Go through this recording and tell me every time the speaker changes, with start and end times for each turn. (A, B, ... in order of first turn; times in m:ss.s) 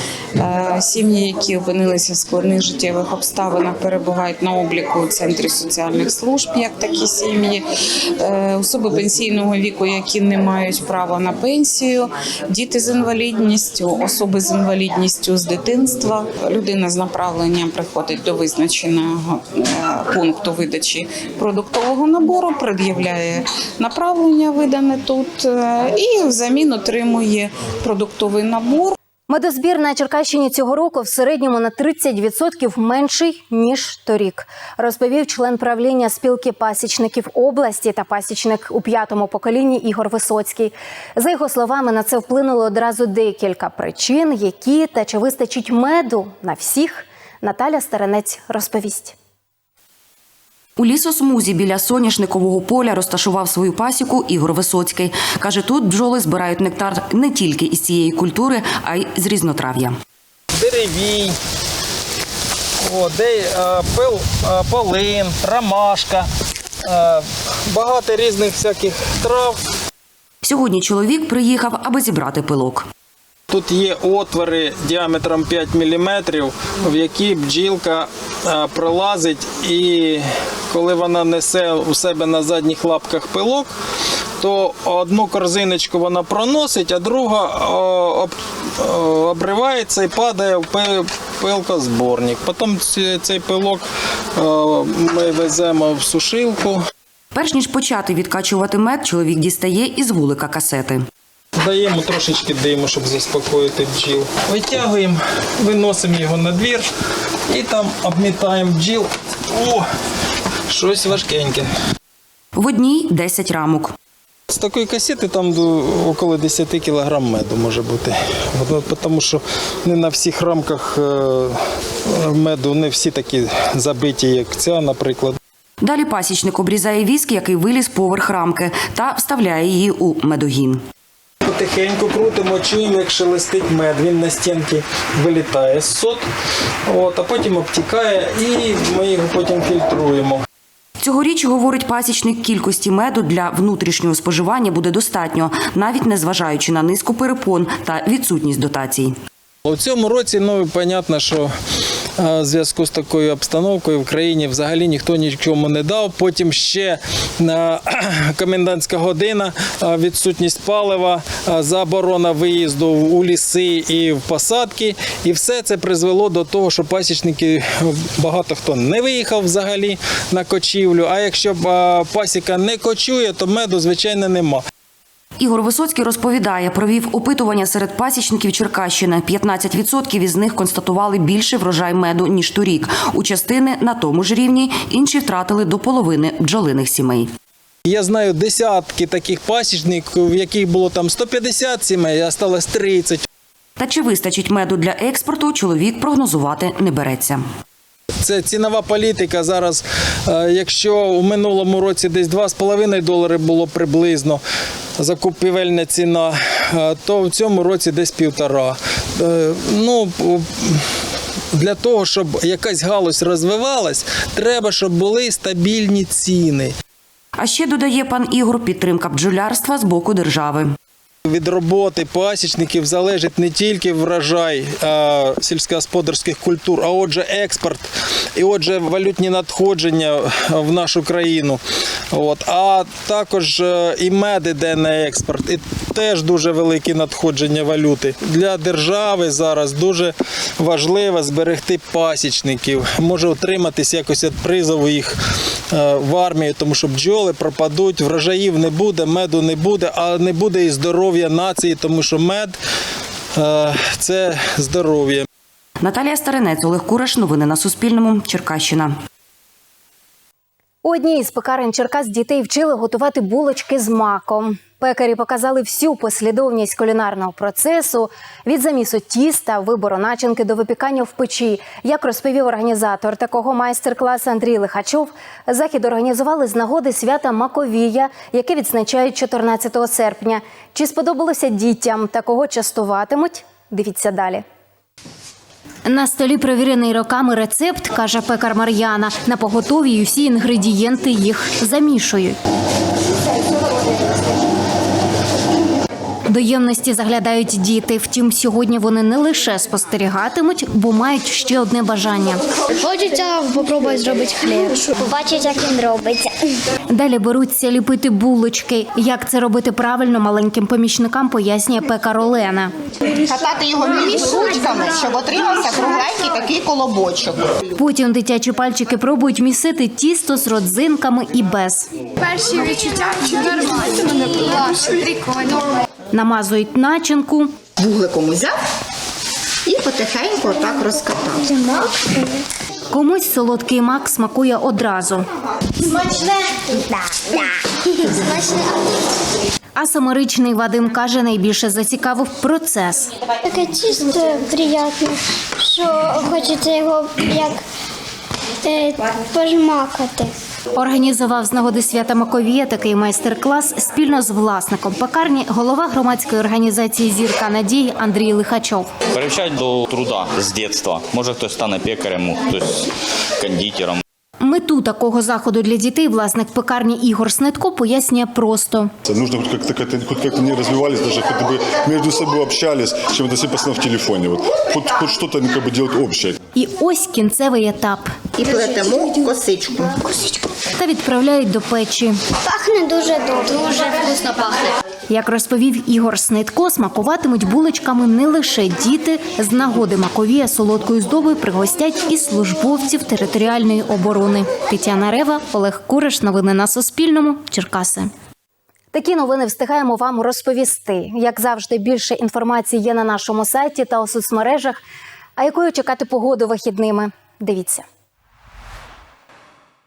0:00.4-0:07.6 A
0:08.2-0:28.9 A
0:29.3-0:49.1 B
0:50.8-0:59.9 C
1:00.5-1:01.3 D
1:02.8-1:06.3 D
1:06.8-1:09.6 D
1:10.4-1:12.9 C
1:13.5-1:23.7 D
1:24.4-1:36.8 D
1:37.3-1:41.1 C
1:41.6-1:46.9 D
1:47.5-1:49.9 D
1:50.7-1:51.7 D
1:52.6-1:53.9 C
1:54.5-2:05.4 D
2:05.8-2:10.8 C
2:11.4-2:16.2 D
2:16.9-2:20.4 D
2:21.0-2:29.1 C
2:29.6-2:31.5 D
2:32.2-2:54.6 D
2:55.4-3:07.3 C
3:07.8-3:13.2 D
3:13.8-3:17.4 C
3:18.2-3:24.4 D
3:25.0-3:30.8 D
3:31.5-3:36.7 D
3:37.4-3:40.7 C
3:41.2-3:51.6 D
3:52.1-4:05.2 D
4:05.7-4:12.6 D
4:13.4-4:15.2 D
4:15.8-4:18.9 C
4:20.8-4:44.4 B
4:45.8-4:52.4 B
4:56.3-5:02.4 B
5:02.8-5:06.3 E
5:06.9-5:12.7 B
5:13.3-5:17.5 F
5:14.1-5:15.0 G
5:17.8-5:21.9 B
5:26.1-5:27.6 B
5:27.8-5:28.5 F
5:29.7-5:31.4 F
5:32.9-5:35.2 B
5:39.8-5:43.1 B
5:43.5-5:45.1 E
5:45.7-5:47.6 E
5:48.6-5:50.3 E
5:50.7-5:58.9 B
5:59.1-6:02.8 G
6:03.4-6:04.0 G
6:04.4-6:08.9 B
6:09.0-6:16.4 H
6:16.5-6:18.1 B
6:18.4-6:19.9 F
6:18.6-6:19.3 G
6:20.8-6:22.2 B
6:22.5-6:24.3 E
6:25.1-6:38.1 B
6:38.9-6:44.8 B
6:45.4-6:47.8 B